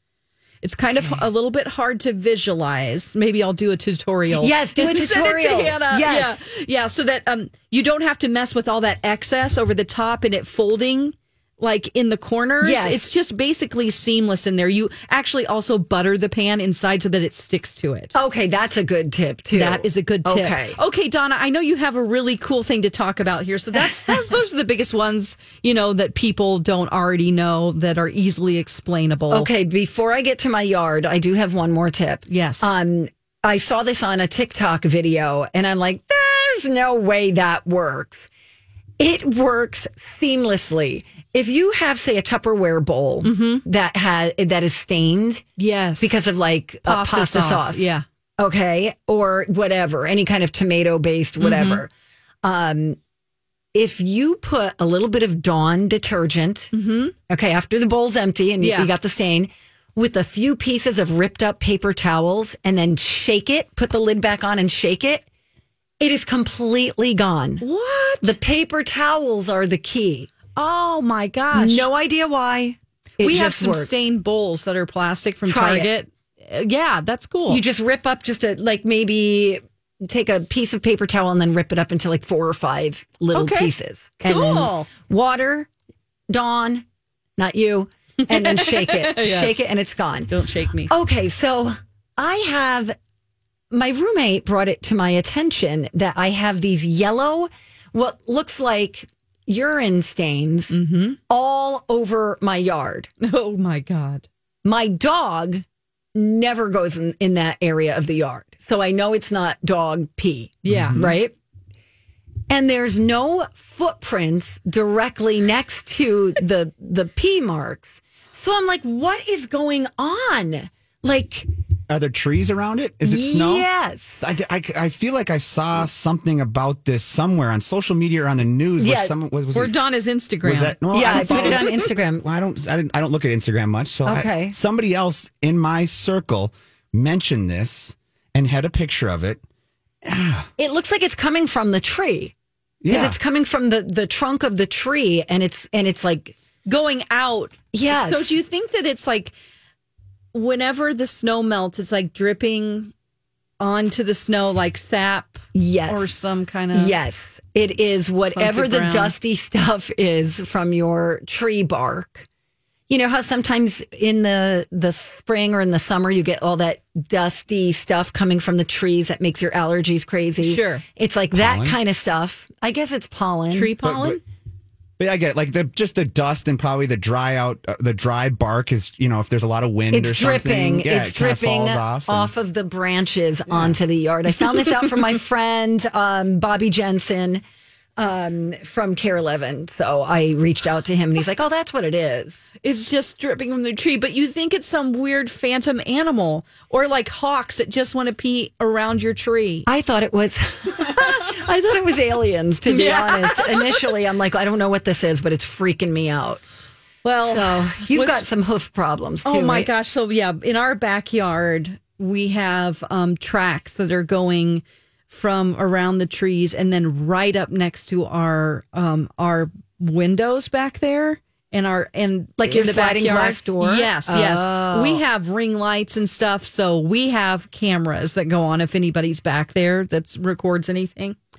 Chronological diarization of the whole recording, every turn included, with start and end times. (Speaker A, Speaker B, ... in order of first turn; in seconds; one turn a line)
Speaker A: 0.6-18.1
Speaker B: 0.9-1.2
Speaker B: 4.3-6.4
Speaker B: 12.6-13.1
Speaker B: 18.1-20.8
Speaker A: 19.5-29.5
Speaker B: 23.7-24.3
Speaker B: 29.3-38.3
Speaker A: 32.3-32.7
Speaker B: 39.0-45.4
Speaker A: 43.2-43.6
Speaker A: 45.6-46.1
Speaker B: 46.0-47.9
Speaker A: 46.9-48.0
Speaker B: 48.4-51.9
Speaker A: 51.4-51.8
Speaker B: 52.4-53.0
Speaker B: 53.7-56.7
Speaker A: 56.7-57.1
Speaker B: 57.3-65.2
Speaker A: 58.6-58.9
Speaker B: 66.0-67.6
Speaker A: 67.6-68.3
Speaker B: 68.2-70.3
Speaker A: 70.5-71.9
Speaker B: 71.5-74.0
Speaker A: 73.2-77.6
Speaker B: 75.5-75.9
Speaker B: 77.5-85.7
Speaker A: 83.3-84.9
Speaker B: 86.3-86.8
Speaker B: 87.4-90.3
Speaker A: 88.3-89.7
Speaker A: 90.3-90.9
Speaker B: 90.9-93.0
Speaker B: 93.7-100.8
Speaker A: 100.7-101.2
Speaker B: 101.3-103.1
Speaker A: 103.2-104.2
Speaker B: 104.6-105.6
Speaker B: 106.1-111.3
Speaker A: 110.6-111.0
Speaker C: 110.7-111.2
Speaker B: 112.5-121.5
Speaker C: 121.9-123.7
Speaker B: 123.0-124.2
Speaker C: 124.2-129.8
Speaker B: 128.8-129.1
Speaker A: 129.5-131.8
Speaker C: 130.4-139.4
Speaker B: 130.9-132.2
Speaker B: 134.1-134.6
Speaker C: 140.0-140.5
Speaker B: 140.6-142.3
Speaker C: 142.8-143.2
Speaker B: 142.9-146.3
Speaker A: 146.7-149.3
Speaker B: 147.7-148.3
Speaker A: 150.3-152.9
Speaker A: 153.6-156.9
Speaker B: 155.5-156.2
Speaker B: 156.7-162.2
Speaker A: 158.3-159.1
Speaker B: 162.9-173.7
Speaker A: 170.4-170.8
Speaker C: 171.3-171.8
Speaker A: 173.5-174.2
Speaker C: 173.8-174.2
Speaker C: 175.0-182.3
Speaker B: 179.9-187.4
Speaker C: 183.5-183.8
Speaker B: 188.0-192.4
Speaker A: 192.6-199.7
Speaker B: 199.7-206.4
Speaker A: 202.7-203.8
Speaker A: 207.0-208.2
Speaker B: 207.3-209.7
Speaker A: 209.2-231.2
Speaker B: 222.4-225.0